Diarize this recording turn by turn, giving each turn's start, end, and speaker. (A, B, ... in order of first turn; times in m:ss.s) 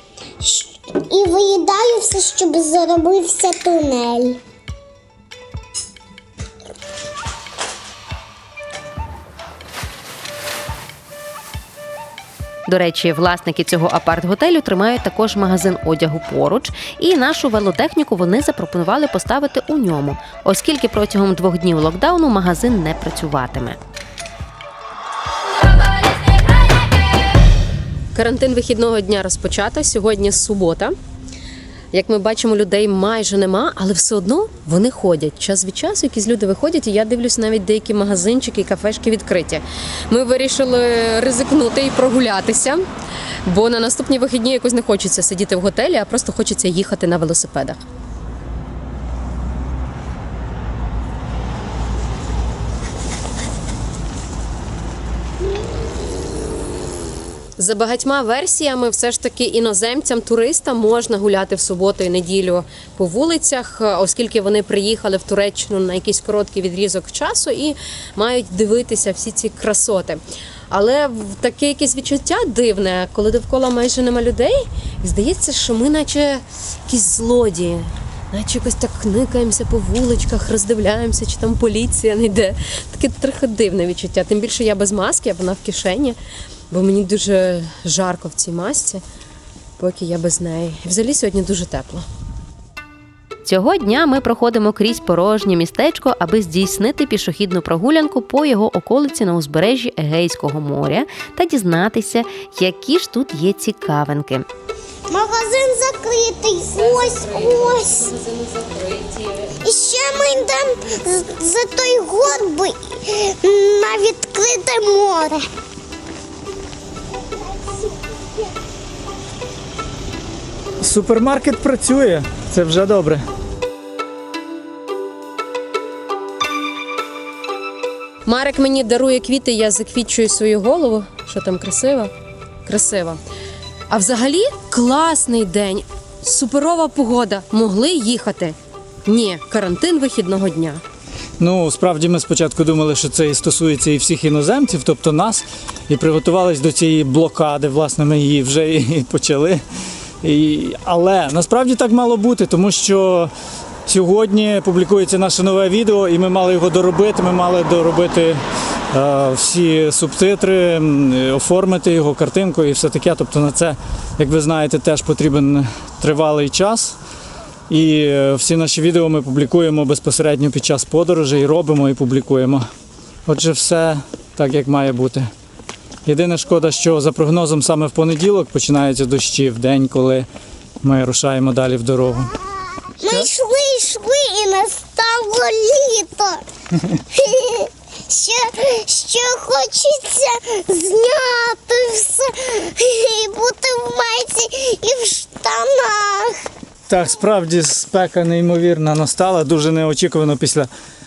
0:00.4-0:04.4 A
0:12.7-0:23.8 B
0:28.1-0:31.0 C
0:31.9-0:42.8 C
0:43.4-0:47.8 C
0:57.6-1:26.2 C
1:26.7-1:29.0 C
1:29.8-1:32.1 C
1:33.4-1:44.5 B
1:45.1-1:48.1 A
1:46.7-1:49.6 C
1:49.6-1:55.5 A
2:00.8-2:03.2 D
2:08.3-2:12.1 C
2:12.6-2:13.2 C
2:13.9-2:20.8 C
2:21.4-2:29.6 D
2:30.2-2:33.3 D
2:33.9-2:47.0 D
2:47.7-2:52.7 D
2:53.3-2:55.3 D
2:56.1-3:00.3 D
3:00.8-3:02.4 D
3:03.0-3:06.4 A
3:07.1-3:16.5 A
3:16.9-3:20.7 D